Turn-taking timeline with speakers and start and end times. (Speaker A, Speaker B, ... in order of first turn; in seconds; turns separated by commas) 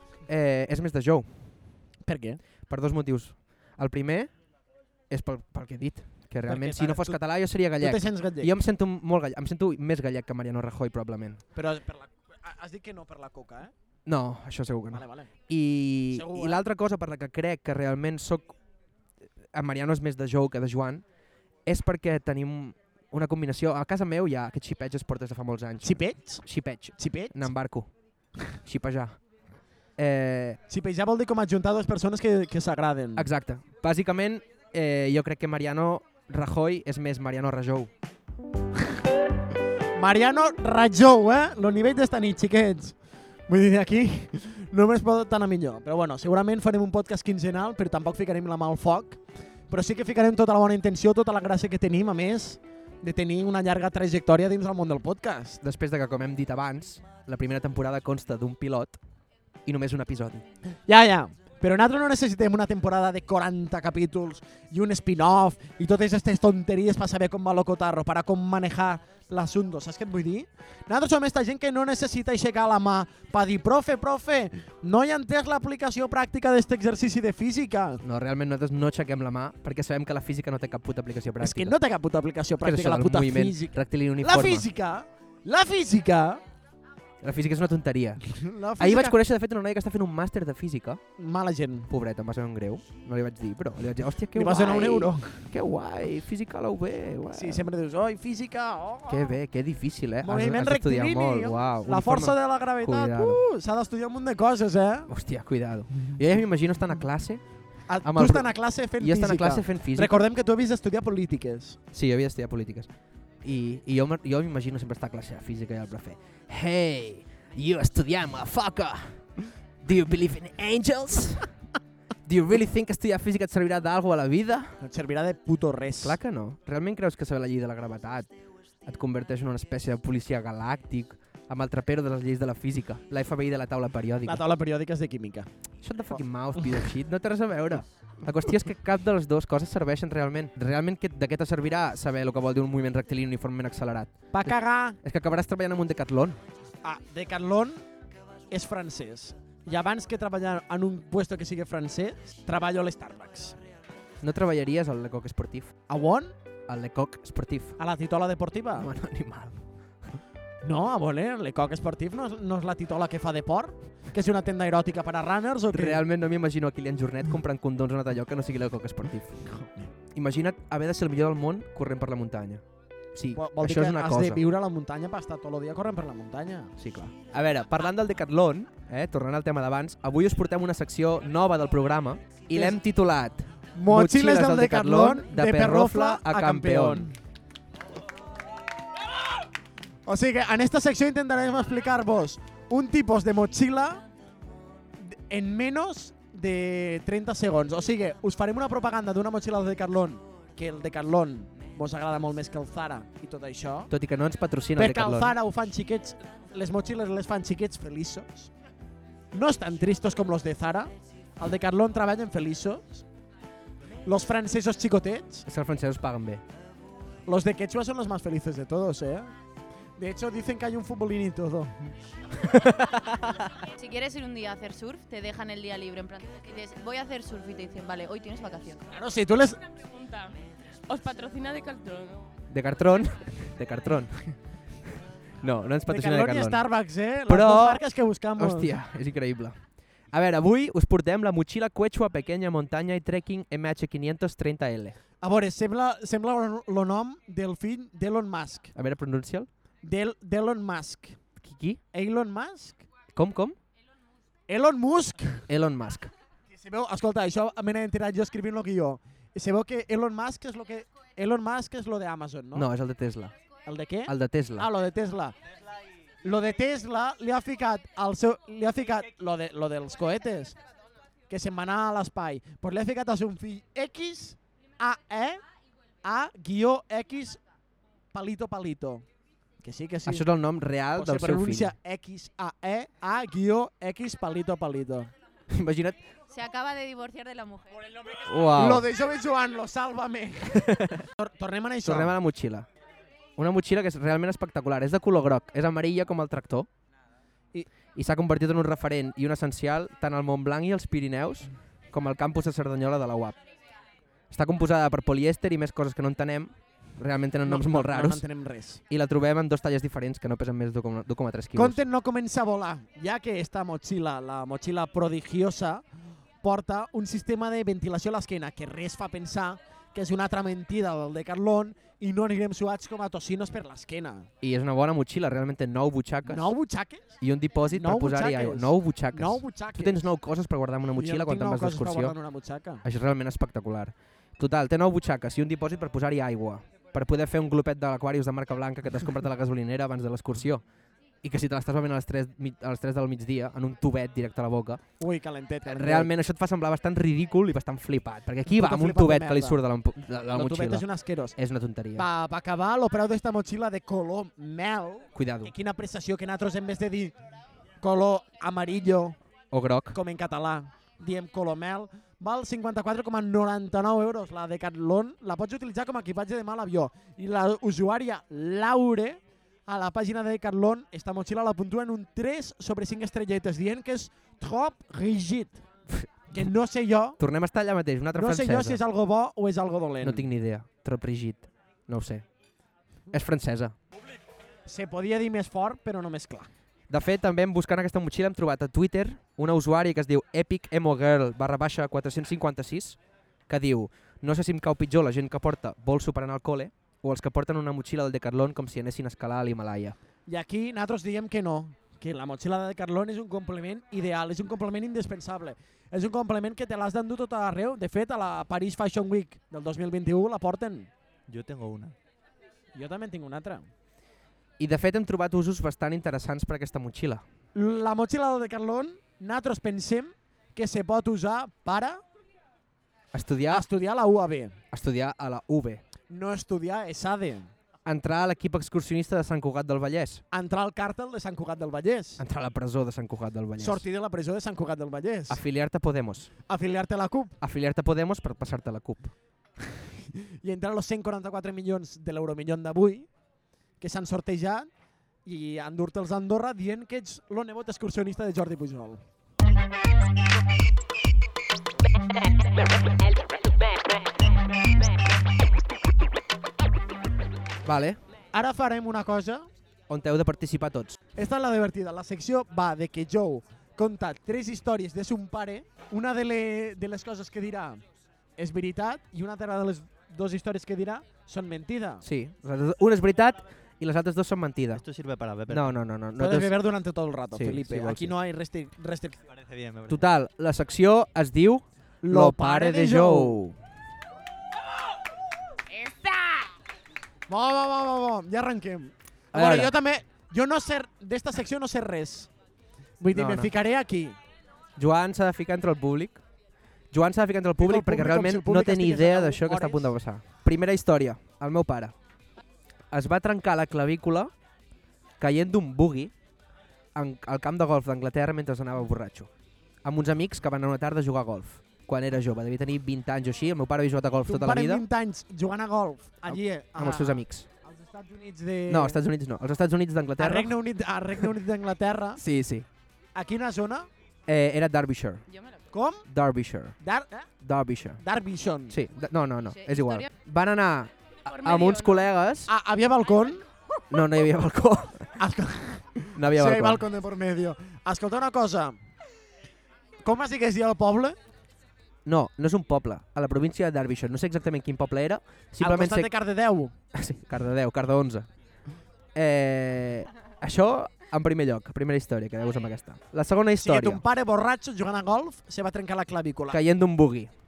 Speaker A: 0.3-1.4, Speaker B: 2.0-2.4, Speaker A: 2.7-4.3, Speaker A: 5.1-11.4, Speaker B: 6.5-7.2, Speaker B: 7.8-8.5, Speaker B: 11.5-13.7, Speaker A: 14.1-18.5, Speaker B: 14.9-15.3, Speaker B: 16.1-16.6, Speaker A: 19.5-21.0, Speaker A: 21.6-27.9, Speaker B: 25.8-26.4, Speaker B: 27.0-27.5, Speaker A: 28.6-29.2, Speaker A: 30.0-30.6, Speaker B: 30.7-33.3, Speaker A: 33.2-37.9, Speaker B: 39.9-43.0, Speaker B: 43.5-55.6, Speaker A: 55.6-59.0, Speaker A: 59.6-60.4, Speaker B: 60.9-78.0, Speaker A: 78.0-81.7, Speaker B: 81.4-86.4, Speaker A: 82.6-84.7, Speaker A: 87.2-91.0, Speaker B: 88.2-89.2, Speaker B: 91.2-91.9, Speaker A: 91.9-97.7, Speaker B: 94.3-95.5, Speaker B: 97.3-99.3, Speaker A: 99.1-103.4, Speaker B: 100.2-105.1, Speaker A: 105.1-107.4, Speaker B: 107.9-111.8, Speaker A: 108.0-110.2, Speaker A: 111.9-112.9, Speaker A: 113.4-119.2, Speaker A: 119.8-121.5, Speaker A: 122.3-124.8, Speaker B: 124.8-126.2, Speaker A: 126.0-128.3, Speaker A: 128.8-134.4, Speaker B: 134.2-135.5, Speaker A: 135.8-146.4, Speaker B: 144.3-145.0, Speaker B: 146.8-147.8, Speaker B: 148.5-153.6, Speaker A: 154.2-155.7, Speaker B: 155.9-156.3, Speaker A: 156.7-157.8, Speaker B: 157.8-158.9, Speaker A: 158.8-159.5, Speaker B: 160.6-166.0, Speaker A: 165.7-169.5, Speaker A: 170.1-172.6, Speaker A: 173.1-174.4, Speaker B: 173.3-176.7, Speaker A: 176.8-187.1, Speaker B: 182.5-182.8, Speaker B: 183.7-187.2, Speaker B: 190.1-194.0, Speaker B: 195.0-203.9, Speaker A: 203.9-205.3, Speaker B: 204.8-208.5, Speaker B: 209.3-213.0, Speaker B: 214.1-215.4, Speaker A: 215.4-216.4, Speaker B: 217.3-219.3, Speaker B: 220.0-221.9, Speaker A: 222.4-223.5, Speaker C: 223.8-228.9, Speaker B: 228.9-229.6, Speaker D: 229.7-230.3, Speaker D: 230.9-232.3, Speaker A: 232.5-234.3, Speaker A: 235.4-236.6, Speaker B: 235.9-238.7, Speaker A: 237.3-237.8, Speaker A: 238.3-239.6, Speaker A: 240.1-245.0, Speaker B: 245.2-248.7, Speaker A: 248.7-249.5, Speaker B: 249.8-251.2, Speaker A: 251.4-251.8, Speaker B: 251.9-252.8, Speaker A: 253.1-253.6, Speaker B: 254.5-255.4, Speaker A: 255.5-256.1, Speaker B: 256.5-262.7, Speaker A: 262.5-263.3, Speaker B: 263.6-265.3, Speaker A: 264.1-264.7, Speaker B: 266.2-270.6, Speaker B: 271.3-275.4, Speaker B: 276.0-277.4, Speaker B: 278.1-279.0, Speaker B: 279.6-280.3, Speaker A: 280.1-281.7, Speaker B: 280.9-285.1, Speaker A: 285.5-286.0, Speaker C: 286.3-287.9, Speaker A: 288.2-288.9, Speaker B: 288.5-292.1, Speaker A: 290.5-291.0, Speaker A: 291.8-292.7, Speaker A: 293.4-296.7, Speaker A: 297.9-303.4, Speaker A: 304.3-308.2, Speaker B: 307.4-308.8, Speaker A: 308.9-311.8, Speaker B: 311.5-315.8, Speaker B: 316.4-324.3, Speaker A: 324.4-326.5, Speaker B: 326.2-330.1, Speaker A: 327.2-332.1, Speaker B: 330.9-332.8, Speaker A: 332.8-340.6, Speaker A: 341.2-344.8, Speaker B: 345.0-346.1, Speaker A: 345.7-352.1, Speaker B: 348.4-349.6, Speaker B: 350.3-351.3, Speaker B: 351.9-357.1, Speaker A: 355.1-355.5, Speaker B: 357.8-359.2, Speaker A: 359.5-360.0, Speaker B: 359.9-375.6, Speaker B: 376.3-377.2, Speaker A: 377.2-378.8, Speaker B: 378.1-380.3, Speaker A: 380.0-382.2, Speaker A: 383.1-383.7, Speaker B: 384.6-386.5, Speaker A: 386.9-400.0, Speaker B: 400.2-410.9, Speaker E: 411.3-411.9, Speaker B: 412.7-413.7, Speaker A: 414.6-417.2, Speaker B: 417.5-422.0, Speaker A: 423.1-423.6, Speaker B: 423.5-424.6, Speaker A: 424.7-425.8, Speaker B: 426.1-427.5, Speaker A: 427.9-430.2, Speaker B: 430.3-432.2, Speaker A: 432.2-433.8, Speaker B: 433.6-435.4, Speaker A: 435.3-436.3, Speaker B: 436.5-437.4, Speaker A: 437.4-439.1, Speaker B: 439.6-443.1, Speaker B: 443.8-444.7, Speaker B: 445.2-449.0, Speaker A: 457.6-458.0, Speaker B: 458.3-459.5, Speaker A: 459.9-461.0, Speaker B: 461.1-467.8, Speaker B: 468.4-472.0, Speaker A: 472.0-474.8, Speaker E: 474.7-475.7, Speaker A: 475.5-476.5, Speaker B: 476.2-479.2, Speaker A: 477.3-478.1, Speaker E: 479.3-480.0, Speaker A: 479.9-483.6, Speaker B: 482.0-483.4, Speaker D: 485.7-486.5, Speaker B: 487.3-492.3, Speaker A: 489.3-489.7, Speaker B: 493.0-494.2, Speaker A: 493.1-493.5, Speaker A: 494.8-496.2, Speaker A: 496.9-501.9, Speaker B: 497.6-499.9, Speaker A: 502.9-504.3, Speaker A: 505.2-506.1, Speaker A: 506.9-509.3, Speaker A: 509.8-514.8, Speaker B: 514.3-519.0, Speaker A: 516.3-517.5, Speaker A: 518.7-520.5, Speaker B: 520.2-522.2, Speaker A: 522.2-522.6, Speaker B: 523.1-523.9, Speaker A: 524.3-525.2, Speaker C: 525.3-525.6, Speaker B: 525.7-526.0, Speaker A: 526.1-526.7, Speaker B: 526.8-527.3, Speaker A: 527.4-528.0, Speaker B: 528.0-528.8, Speaker A: 528.7-532.5, Speaker C: 529.5-530.1, Speaker D: 531.3-532.1, Speaker B: 532.5-533.5, Speaker A: 533.9-535.2, Speaker B: 535.2-538.8, Speaker A: 536.1-536.8, Speaker B: 540.0-541.2, Speaker A: 542.0-546.1, Speaker B: 545.6-546.7, Speaker A: 546.9-548.3, Speaker A: 549.1-554.0, Speaker B: 553.6-556.6, Speaker A: 556.5-557.3